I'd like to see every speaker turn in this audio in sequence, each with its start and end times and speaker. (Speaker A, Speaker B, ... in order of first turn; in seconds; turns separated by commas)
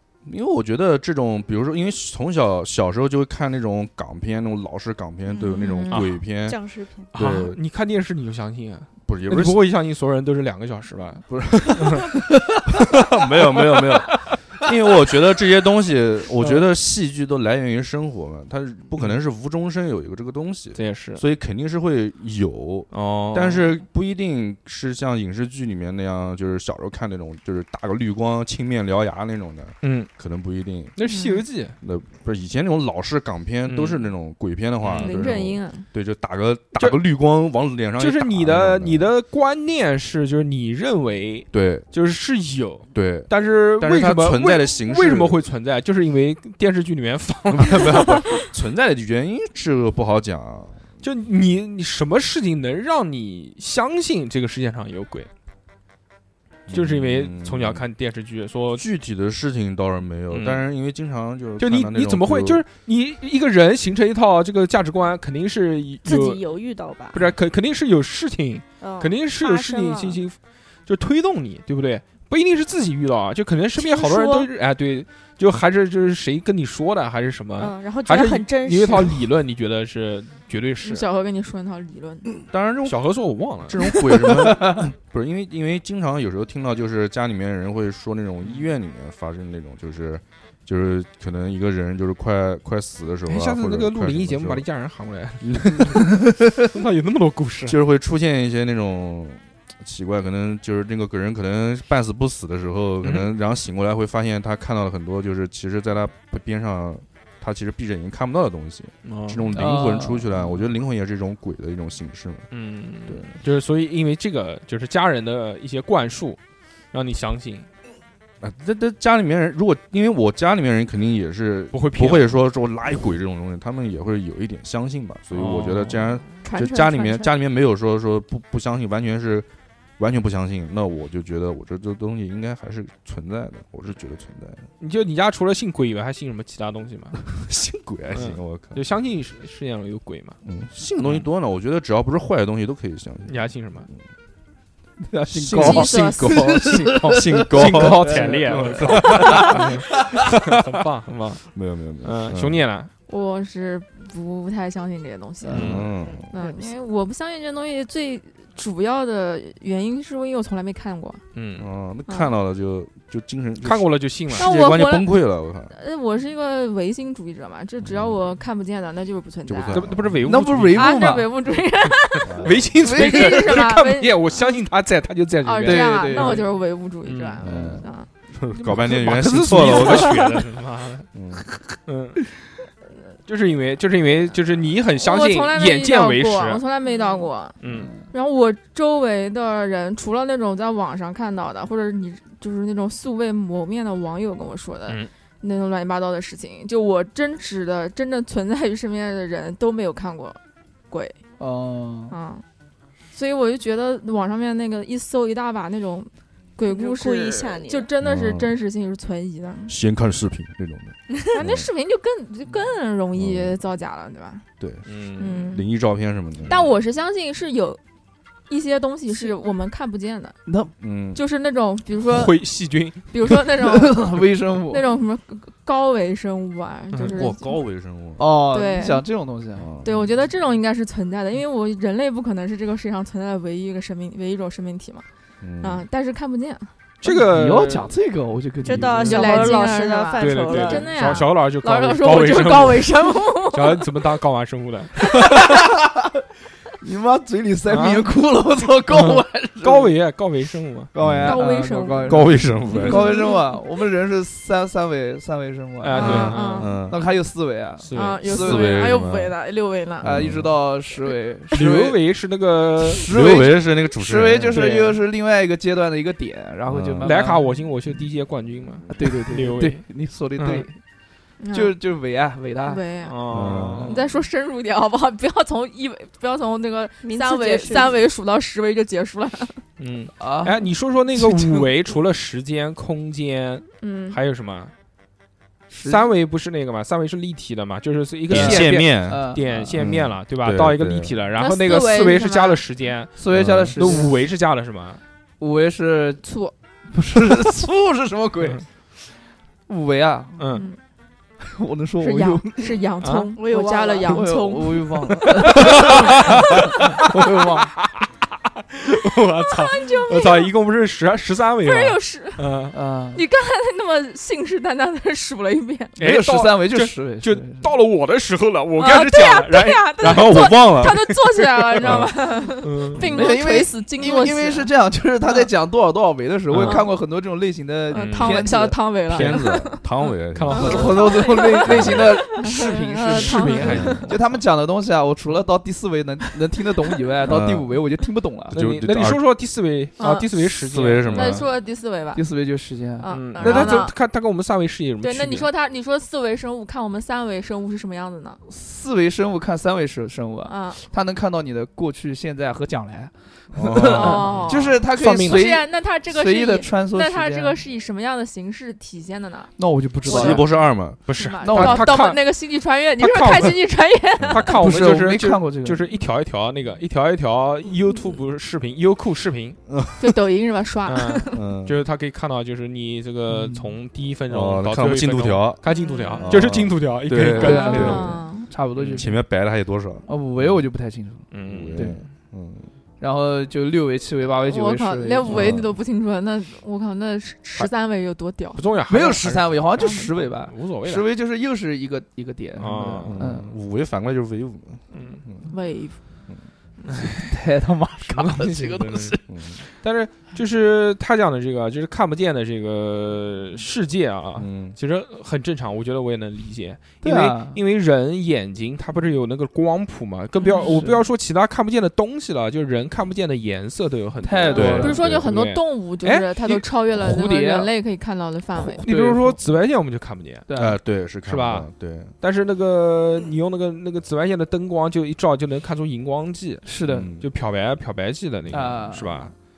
Speaker A: 0.2-6.6, Speaker B: 5.3-6.0, Speaker C: 5.9-6.2, Speaker D: 6.4-7.1, Speaker C: 7.1-11.2, Speaker A: 7.1-7.6, Speaker A: 9.0-9.6, Speaker A: 11.3-30.9, Speaker C: 11.8-12.1, Speaker C: 20.8-21.2, Speaker C: 22.9-23.7, Speaker C: 29.8-30.1, Speaker C: 31.0-31.8, Speaker B: 31.0-31.4, Speaker A: 31.8-39.1, Speaker C: 33.6-34.1, Speaker C: 34.8-35.3, Speaker B: 35.0-35.9, Speaker C: 38.0-48.3, Speaker A: 41.5-41.9, Speaker A: 42.9-45.4, Speaker A: 47.5-50.8, Speaker C: 51.0-55.3, Speaker A: 56.7-57.8, Speaker C: 56.7-58.9, Speaker A: 58.7-62.6, Speaker C: 60.3-60.6, Speaker C: 61.6-66.4, Speaker D: 66.0-67.2, Speaker C: 67.1-81.0, Speaker D: 68.8-70.2, Speaker D: 73.8-74.5, Speaker D: 77.6-79.2, Speaker B: 80.8-82.3, Speaker A: 82.5-83.0, Speaker C: 82.8-83.8, Speaker A: 83.6-94.7, Speaker E: 83.9-84.8, Speaker C: 93.3-97.8, Speaker A: 95.4-96.1, Speaker A: 97.7-112.5, Speaker C: 103.0-103.3, Speaker C: 109.0-109.7, Speaker E: 109.5-110.6, Speaker C: 112.5-116.4, Speaker A: 113.1-113.3, Speaker C: 116.9-117.7, Speaker A: 118.4-134.7, Speaker C: 121.7-122.4, Speaker C: 125.3-126.3, Speaker D: 126.5-127.3, Speaker C: 134.8-137.2, Speaker A: 137.3-138.8, Speaker C: 138.1-140.4, Speaker A: 140.4-143.4, Speaker C: 141.0-141.3, Speaker C: 143.3-143.9, Speaker E: 145.0-149.8, Speaker A: 145.3-149.8, Speaker B: 145.6-146.5, Speaker C: 147.1-151.4, Speaker A: 151.5-152.6, Speaker C: 152.0-152.9, Speaker B: 153.1-155.7, Speaker E: 155.4-155.8, Speaker C: 155.5-155.9, Speaker A: 155.5-156.3, Speaker D: 156.0-156.7, Speaker B: 156.3-161.2, Speaker C: 161.3-161.7, Speaker A: 161.6-165.7, Speaker C: 163.6-164.5, Speaker B: 164.3-169.9, Speaker A: 167.8-168.2, Speaker A: 169.5-170.3, Speaker C: 169.7-171.1, Speaker E: 170.2-171.3, Speaker B: 170.7-172.3, Speaker A: 172.2-172.8, Speaker C: 172.4-176.4, Speaker E: 172.8-173.6, Speaker B: 172.8-174.6, Speaker B: 175.4-178.1, Speaker E: 175.6-176.5, Speaker C: 177.0-177.4, Speaker A: 177.4-180.3, Speaker E: 177.5-177.8, Speaker C: 178.8-181.1, Speaker A: 181.1-181.4, Speaker C: 181.7-182.3, Speaker C: 183.2-186.6, Speaker B: 185.0-187.6, Speaker C: 187.6-187.9, Speaker E: 187.6-188.1, Speaker B: 188.1-200.4, Speaker B: 200.9-201.2, Speaker E: 201.4-202.2, Speaker B: 202.1-202.4, Speaker B: 203.1-209.8, Speaker D: 206.7-207.9, Speaker A: 208.0-208.5, Speaker A: 209.7-211.7, Speaker B: 211.3-214.4, Speaker A: 213.1-213.6, Speaker A: 214.6-214.9, Speaker C: 214.9-215.5, Speaker B: 215.2-215.6, Speaker A: 215.4-216.7, Speaker B: 216.5-217.8, Speaker B: 218.5-220.4, Speaker E: 220.5-220.7, Speaker A: 220.8-221.2, Speaker B: 221.1-222.4, Speaker C: 222.1-223.4, Speaker B: 223.1-224.1, Speaker E: 223.6-224.8, Speaker B: 224.7-227.6, Speaker A: 227.0-228.3, Speaker E: 228.2-229.7, Speaker B: 228.5-229.1, Speaker A: 229.6-230.1, Speaker B: 229.8-235.0, Speaker A: 235.4-235.9, Speaker B: 235.6-236.7, Speaker C: 237.0-237.9, Speaker E: 237.0-239.7, Speaker D: 238.6-241.2, Speaker B: 239.0-243.9, Speaker C: 240.2-245.1, Speaker E: 245.1-246.1, Speaker E: 246.8-249.9, Speaker C: 247.7-248.1, Speaker C: 248.9-250.9, Speaker E: 250.9-258.8, Speaker A: 251.0-251.4, Speaker B: 251.2-253.5, Speaker A: 252.0-253.1, Speaker C: 255.8-256.7, Speaker B: 255.9-256.8, Speaker A: 256.0-257.0, Speaker C: 257.8-258.2, Speaker B: 257.9-260.1, Speaker A: 258.3-259.4, Speaker A: 260.0-260.6, Speaker E: 260.0-262.0, Speaker C: 261.5-263.0, Speaker E: 262.9-267.5, Speaker A: 263.0-264.6, Speaker C: 264.5-265.0, Speaker A: 266.7-267.1, Speaker C: 267.0-270.7, Speaker E: 268.9-270.8, Speaker B: 271.4-271.8, Speaker E: 271.5-272.8, Speaker B: 272.6-279.6, Speaker C: 273.0-274.0, Speaker A: 273.3-274.0, Speaker D: 277.0-277.9, Speaker C: 279.8-284.7, Speaker E: 280.2-281.6, Speaker B: 283.8-284.2, Speaker E: 285.7-286.0, Speaker C: 285.9-295.0, Speaker E: 288.3-289.8, Speaker A: 288.3-291.1, Speaker B: 291.4-292.6, Speaker E: 293.2-294.1, Speaker A: 293.3-293.8, Speaker E: 295.4-296.2, Speaker B: 296.2-296.5, Speaker E: 296.9-298.6, Speaker E: 299.7-300.5, Speaker C: 300.4-300.7, Speaker B: 300.5-300.8, Speaker E: 301.4-302.8, Speaker B: 302.0-304.9, Speaker C: 303.0-303.3, Speaker D: 303.3-304.4, Speaker E: 304.1-307.7, Speaker C: 305.5-312.8, Speaker B: 305.7-306.0, Speaker B: 309.4-310.5, Speaker B: 311.6-312.5, Speaker E: 312.7-313.2, Speaker B: 313.1-316.0, Speaker C: 316.0-323.1, Speaker E: 316.0-317.7, Speaker B: 318.8-324.7, Speaker A: 320.0-321.1, Speaker A: 321.8-322.1, Speaker E: 323.0-328.8, Speaker C: 326.5-326.9, Speaker B: 326.6-326.9, Speaker B: 327.9-329.8, Speaker C: 327.9-328.5, Speaker A: 329.1-331.1, Speaker C: 329.1-329.4, Speaker C: 330.3-332.0, Speaker B: 330.5-334.1, Speaker E: 330.5-338.6, Speaker A: 331.6-332.1, Speaker C: 333.1-334.2, Speaker A: 333.6-334.1, Speaker A: 337.2-337.8, Speaker A: 338.5-339.2, Speaker C: 338.5-341.4, Speaker B: 340.0-340.3, Speaker A: 340.4-341.5, Speaker B: 341.0-342.2, Speaker E: 342.1-343.8, Speaker B: 343.0-344.0, Speaker C: 343.1-345.5, Speaker B: 345.0-348.4, Speaker E: 348.5-357.6, Speaker B: 350.5-350.8, Speaker A: 353.5-354.4, Speaker C: 353.8-355.5, Speaker B: 353.9-359.5, Speaker E: 359.6-360.5, Speaker B: 360.0-360.4, Speaker A: 360.0-361.0, Speaker C: 361.1-362.4, Speaker B: 361.1-364.5, Speaker E: 361.4-361.9, Speaker C: 363.0-363.6, Speaker C: 364.3-369.6, Speaker E: 364.5-365.9, Speaker A: 369.7-370.1, Speaker B: 370.0-371.4, Speaker C: 370.9-378.1, Speaker A: 371.3-371.8, Speaker E: 373.3-373.7, Speaker A: 374.3-375.6, Speaker B: 375.7-376.3, Speaker A: 376.2-378.1, Speaker E: 377.3-379.2, Speaker B: 377.4-378.5, Speaker C: 378.8-379.1, Speaker A: 378.9-380.6, Speaker E: 380.1-382.0, Speaker C: 381.3-382.0, Speaker A: 381.4-382.7, Speaker E: 383.0-385.6, Speaker B: 384.5-388.6, Speaker A: 385.3-385.7, Speaker C: 388.5-391.1, Speaker E: 388.9-393.5, Speaker B: 389.8-390.1, Speaker C: 392.6-393.2, Speaker A: 393.1-395.5, Speaker C: 394.9-395.2, Speaker B: 395.5-396.0, Speaker C: 396.9-397.3, Speaker E: 397.2-399.2, Speaker C: 398.0-416.6, Speaker A: 399.3-399.6, Speaker A: 404.4-404.8, Speaker E: 407.0-407.6, Speaker E: 410.5-411.0, Speaker E: 414.2-415.0, Speaker A: 414.5-415.3, Speaker B: 414.8-418.8, Speaker E: 416.9-417.7, Speaker E: 418.5-419.4, Speaker C: 418.9-420.5, Speaker E: 420.5-420.8, Speaker A: 420.5-422.1, Speaker C: 421.2-421.7, Speaker C: 422.2-429.3, Speaker E: 426.6-427.1, Speaker A: 426.9-427.3, Speaker E: 428.5-429.3